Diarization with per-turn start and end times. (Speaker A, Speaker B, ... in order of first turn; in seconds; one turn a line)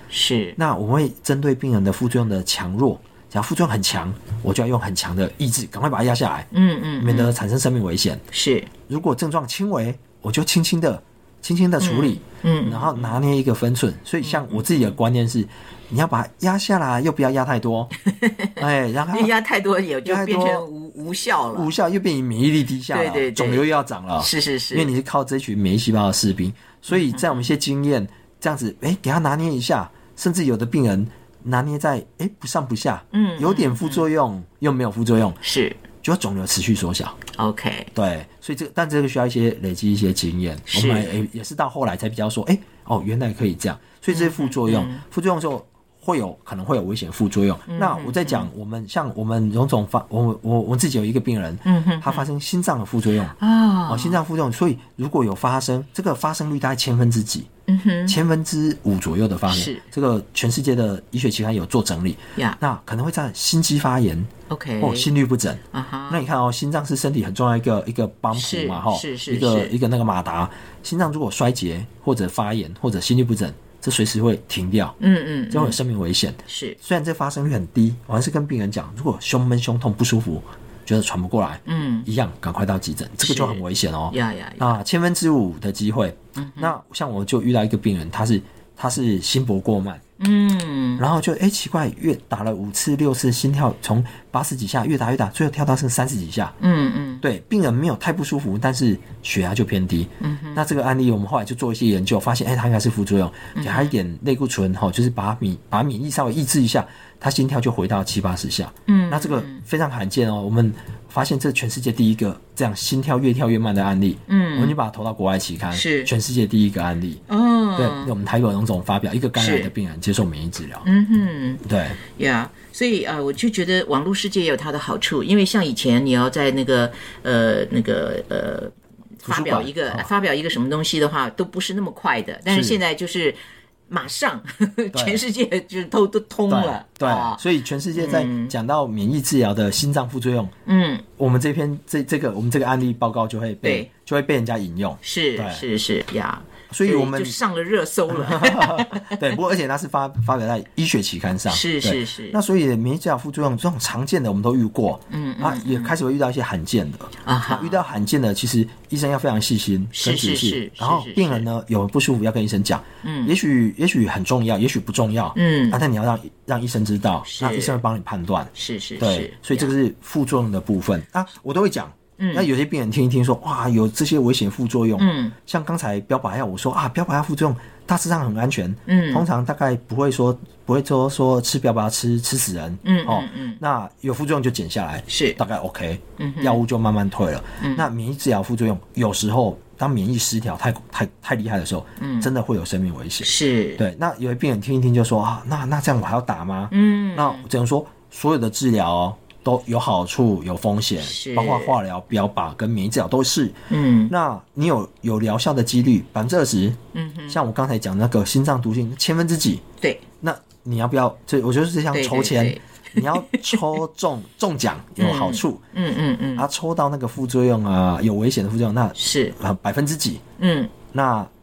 Speaker A: 0.1-0.6
Speaker B: 0.6-8.2
Speaker A: 6.5-7.4
Speaker A: 8.3-8.7
Speaker B: 8.9-17.9
Speaker A: 11.8-13.2
Speaker A: 14.2-15.0
Speaker A: 18.0-21.7
Speaker B: 18.6-19.4
Speaker B: 20.1-20.7
Speaker B: 21.5-35.4
Speaker A: 22.9-24.9
Speaker A: 26.9-27.4
Speaker A: 33.1-34.1
Speaker A: 35.4-35.8
Speaker B: 36.0-37.2
Speaker A: 37.4-37.9
Speaker B: 38.0-53.4
Speaker A: 40.7-41.2
Speaker A: 44.1-45.0
Speaker A: 47.7-48.5
Speaker A: 51.6-52.3
Speaker A: 53.4-54.2
Speaker B: 53.9-57.5
Speaker A: 57.7-58.2
Speaker B: 58.1-75.0
Speaker A: 59.5-59.9
Speaker A: 64.5-65.1
Speaker A: 65.7-66.2
Speaker A: 68.3-69.8
Speaker A: 75.0-75.8
Speaker B: 75.5-90.0
Speaker A: 76.5-76.8
Speaker A: 81.7-82.1
Speaker A: 83.2-84.8
Speaker A: 86.4-86.8
Speaker A: 90.2-91.0
Speaker B: 91.0-96.5
Speaker A: 96.6-97.2
Speaker B: 97.2-117.2
Speaker A: 100.2-100.7
Speaker A: 103.5-104.0
Speaker A: 108.9-109.6
Speaker A: 114.3-114.8
Speaker A: 115.7-116.1
Speaker A: 117.3-118.1
Speaker B: 117.8-120.9
Speaker A: 119.4-119.7
Speaker A: 120.8-138.6
Speaker B: 121.7-122.0
Speaker B: 129.2-130.1
Speaker B: 132.5-132.8
Speaker B: 134.9-135.2
Speaker B: 136.5-140.5
Speaker A: 140.7-141.1
Speaker B: 141.2-145.7
Speaker A: 143.6-143.9
Speaker A: 145.0-149.2
Speaker B: 146.7-147.4
Speaker B: 148.1-203.6
Speaker A: 151.5-152.4
Speaker A: 155.1-155.9
Speaker A: 157.2-157.8
Speaker A: 159.9-161.5
Speaker A: 163.0-163.3
Speaker A: 165.3-165.8
Speaker A: 167.2-167.8
Speaker A: 168.5-169.7
Speaker A: 172.2-172.5
Speaker A: 175.0-175.4
Speaker A: 178.9-179.3
Speaker A: 182.8-183.6
Speaker A: 185.1-185.4
Speaker A: 186.2-186.6
Speaker A: 187.6-187.9
Speaker A: 192.0-192.3
Speaker A: 193.2-193.8
Speaker A: 196.7-197.5
Speaker A: 201.0-201.8
Speaker A: 203.7-204.1
Speaker B: 204.1-209.6
Speaker A: 206.9-207.4
Speaker A: 209.8-210.1
Speaker B: 210.2-215.6
Speaker A: 211.9-213.8
Speaker A: 215.0-216.5
Speaker B: 216.4-220.2
Speaker A: 219.0-219.4
Speaker A: 220.4-220.7
Speaker B: 220.9-221.3